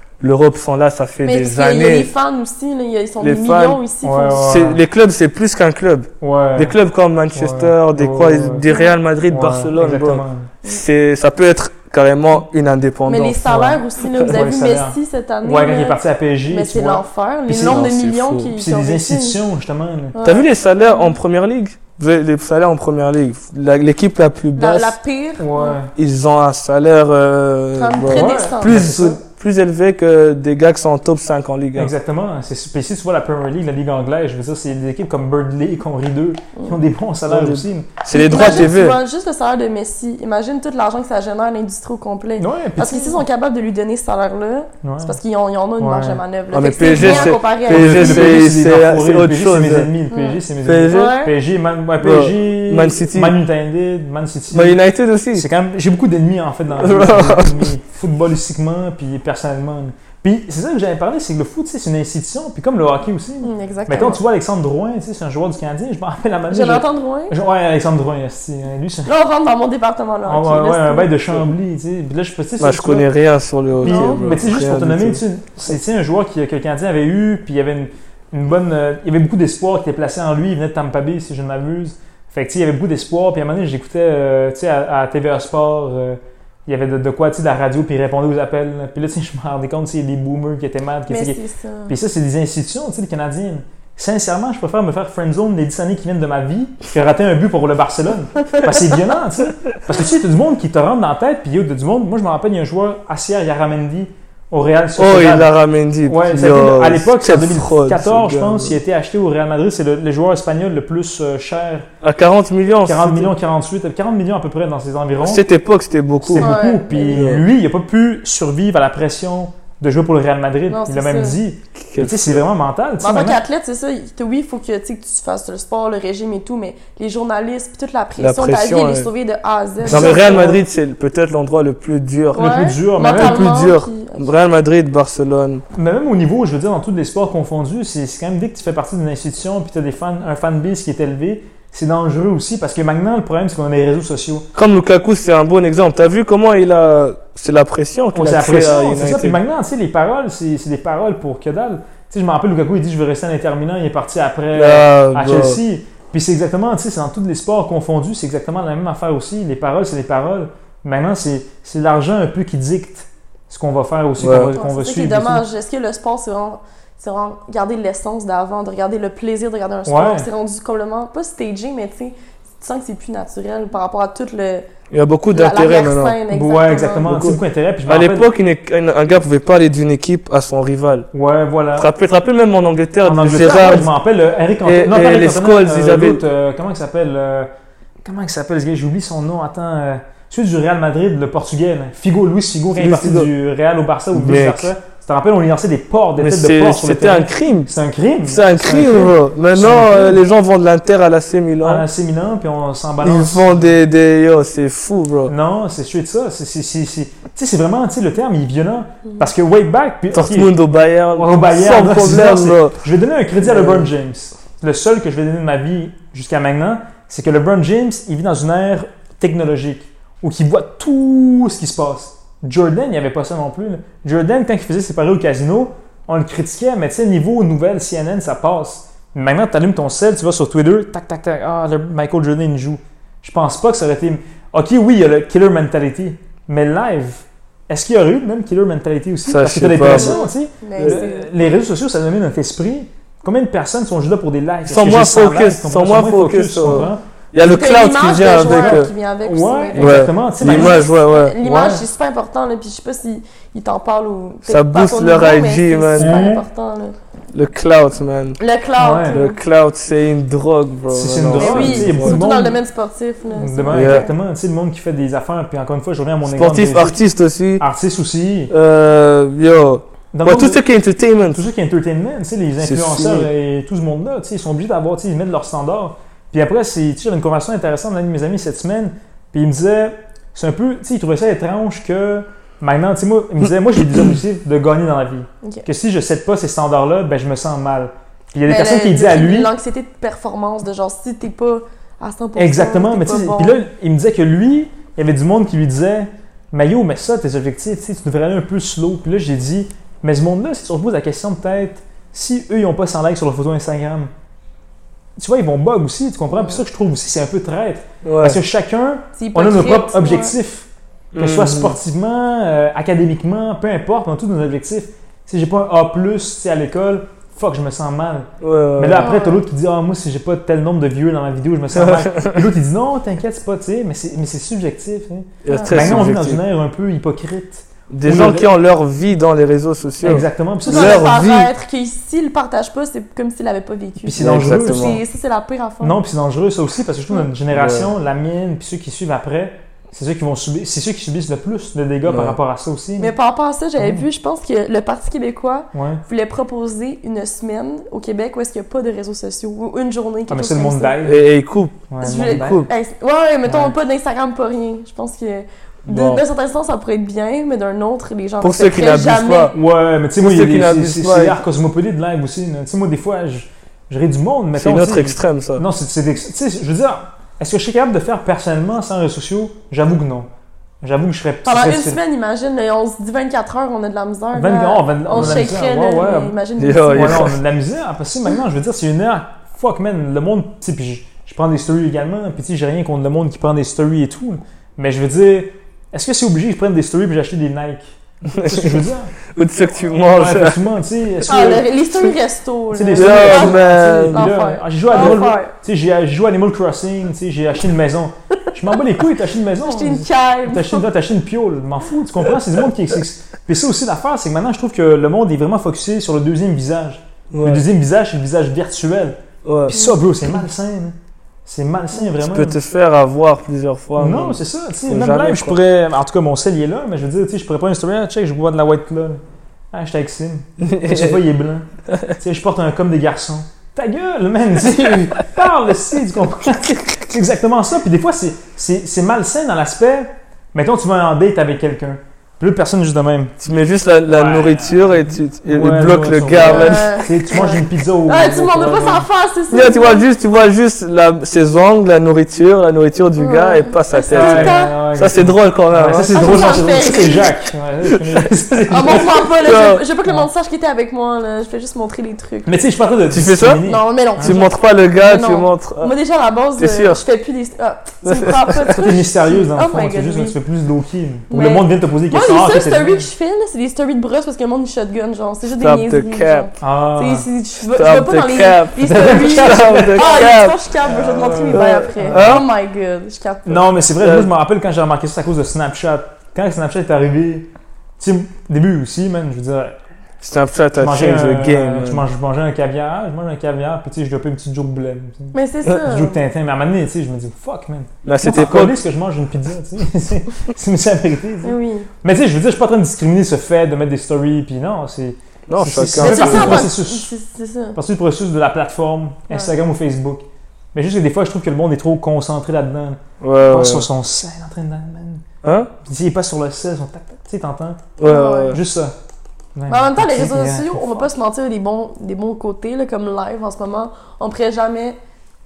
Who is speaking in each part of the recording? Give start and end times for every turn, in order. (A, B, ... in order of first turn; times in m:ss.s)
0:00.2-0:02.1 A
0:01.2-0:04.5 B
0:03.2-0:03.8 A
0:04.0-0:04.8 C
0:04.3-0:14.3 A
0:06.2-0:06.8 C
0:07.3-0:08.7 C
0:08.7-0:08.9 B
0:09.3-0:10.5 C
0:13.1-0:19.4 B
0:14.2-0:17.9 C
0:17.6-0:18.6 A
0:18.6-0:20.2 C
0:20.1-0:21.1 B
0:20.2-0:25.0 A
0:24.6-0:25.8 B
0:25.4-0:25.9 C
0:26.0-0:31.9 A
0:27.8-0:28.8 B
0:28.1-0:29.2 C
0:31.8-0:38.6 C
0:37.3-0:39.0 A
0:38.1-0:48.5 B
0:42.4-0:43.2 C
0:44.8-0:45.2 C
0:45.8-0:46.2 C
0:46.5-0:49.9 A
0:46.9-0:54.8 C
0:50.1-0:51.3 B
0:50.6-0:51.2 A
0:52.0-0:53.4 A
0:54.5-0:55.5 A
0:55.3-1:09.1 C
0:56.8-0:57.7 A
1:03.4-1:04.2 B
1:06.5-1:07.4 B
1:09.1-1:11.4 B
1:10.3-1:13.1 C
1:12.6-1:15.2 A
1:13.8-1:45.5 C
1:13.8-1:14.3 B
1:31.1-1:32.0 B
1:45.0-1:48.8 A
1:46.1-1:51.9 C
1:52.0-1:53.3 A
1:52.9-1:55.4 C
1:55.2-1:57.5 A
1:56.3-2:03.4 C
1:56.4-1:57.3 B
2:00.7-2:01.4 B
2:01.8-2:02.4 A
2:03.0-2:10.6 B
2:08.2-2:09.1 A
2:09.8-2:10.5 C
2:09.9-2:12.5 A
2:12.4-2:14.3 B
2:12.4-2:13.5 C
2:13.0-2:15.6 A
2:15.7-2:24.5 C
2:24.6-2:29.4 A
2:28.2-2:45.4 C
2:34.5-2:35.6 A
2:44.2-2:44.5 A
2:44.5-2:54.7 B
2:49.9-2:50.3 C
2:54.9-2:56.2 A
2:55.3-2:57.1 B
2:56.3-2:58.3 C
2:57.0-3:01.1 A
3:01.1-3:01.9 C
3:01.8-3:03.9 A
3:03.0-3:07.5 C
3:03.4-3:03.8 B
3:04.6-3:06.2 A
3:08.0-3:20.2 C
3:12.7-3:13.3 A
3:14.1-3:14.7 A
3:16.2-3:17.7 A
3:18.2-3:21.9 A
3:21.6-3:23.6 C
3:23.0-3:25.3 A
3:25.3-3:30.5 C
3:30.1-3:32.8 A
3:31.2-4:07.0 C
3:33.4-3:33.9 A
3:59.3-4:00.2 A
3:59.9-4:01.3 B
4:00.8-4:01.0 A
4:04.7-4:08.9 A
4:06.7-4:17.0 B
4:08.4-4:10.8 C
4:09.8-4:11.4 A
4:11.4-4:11.8 C
4:14.5-4:16.3 A
4:16.0-4:16.4 C
4:17.3-4:18.4 A
4:18.4-4:19.4 B
4:18.8-4:19.2 C
4:19.1-4:22.2 A
4:20.9-4:22.6 C
4:21.4-4:24.1 B
4:23.3-4:27.0 C
4:23.7-4:24.1 A
4:26.2-4:27.6 A
4:27.6-4:28.5 C
4:28.5-4:31.4 A
4:30.1-4:30.6 C
4:31.3-4:49.5 C
4:32.6-4:33.3 A
4:48.5-4:53.6 B
4:52.4-5:04.1 C
5:05.2-5:28.5 C
5:08.0-5:08.4 A
5:09.2-5:10.3 B
5:11.1-5:11.8 A
5:18.4-5:19.1 A
5:19.0-5:19.4 B
5:21.7-5:22.5 A
5:25.4-5:26.4 A
5:25.5-5:25.8 B
5:27.9-5:31.5 A
5:30.0-5:31.0 C
5:30.7-5:36.0 B
5:34.0-5:35.0 C
5:34.2-5:35.0 A
5:35.8-5:43.1 C
5:37.5-5:37.9 A
5:42.1-5:42.4 A
5:43.0-5:51.0 B
5:43.8-5:44.1 C
5:45.7-5:46.0 C
5:50.3-5:51.3 C
5:51.0-5:52.7 A
5:51.9-5:52.7 C
5:52.0-5:59.5 B
5:53.5-5:53.7 C
5:55.9-5:56.2 A
5:58.4-5:59.6 A
5:59.5-6:10.3 C
6:00.2-6:01.4 A
6:04.6-6:05.6 A
6:10.8-6:12.0 C
6:11.5-6:17.3 B
6:14.3-6:16.4 C
6:16.6-6:17.4 A
6:16.9-6:29.1 C
6:28.3-6:30.6 A
6:30.0-6:31.7 C
6:31.2-6:35.5 B
6:32.7-6:51.0 C
6:33.0-6:34.3 A
6:34.9-6:35.3 A
6:39.6-6:40.8 B
6:47.3-6:47.6 A
6:49.4-6:49.8 A
6:49.7-6:50.0 B
6:51.5-6:52.6 C
6:52.2-6:55.6 A
6:54.0-6:59.2 C
6:59.7-7:01.7 C
7:00.6-7:01.2 A
7:01.9-7:02.2 A
7:02.2-7:13.4 C
7:13.4-7:17.0 A
7:14.1-7:19.1 C
7:16.4-7:20.1 B
7:19.5-7:26.3 A
7:23.2-7:24.7 B
7:24.1-7:29.3 C
7:26.1-7:27.3 B
7:27.9-7:28.3 A
7:28.7-7:32.5 B
7:28.8-7:29.8 A
7:32.5-7:34.4 C
7:33.1-7:33.6 A
7:33.6-7:40.4 B
7:34.2-7:35.9 A
7:36.6-7:37.0 A
7:38.0-7:38.9 A
7:38.8-7:43.1 C
7:41.3-7:53.6 B
7:45.6-7:46.5 A
7:46.6-7:47.3 C
7:47.7-7:50.6 A
7:48.8-7:50.3 C
7:50.8-7:52.4 C
7:51.5-7:52.5 A
7:53.5-7:57.5 C
7:54.0-7:54.3 A
7:58.0-7:59.8 C
8:00.2-8:02.0 A
8:00.8-8:17.1 C
8:05.3-8:06.2 B
8:08.0-8:08.8 A
8:11.4-8:11.9 B
8:15.5-8:16.7 A
8:16.0-8:17.8 B
8:17.8-8:25.2 C
8:23.2-8:23.9 A
8:25.4-8:25.7 A
8:25.8-8:28.0 C
8:28.0-8:28.6 A
8:28.0-8:28.6 B
8:28.5-8:28.9 C
8:29.6-8:31.0 C
8:29.7-8:35.0 B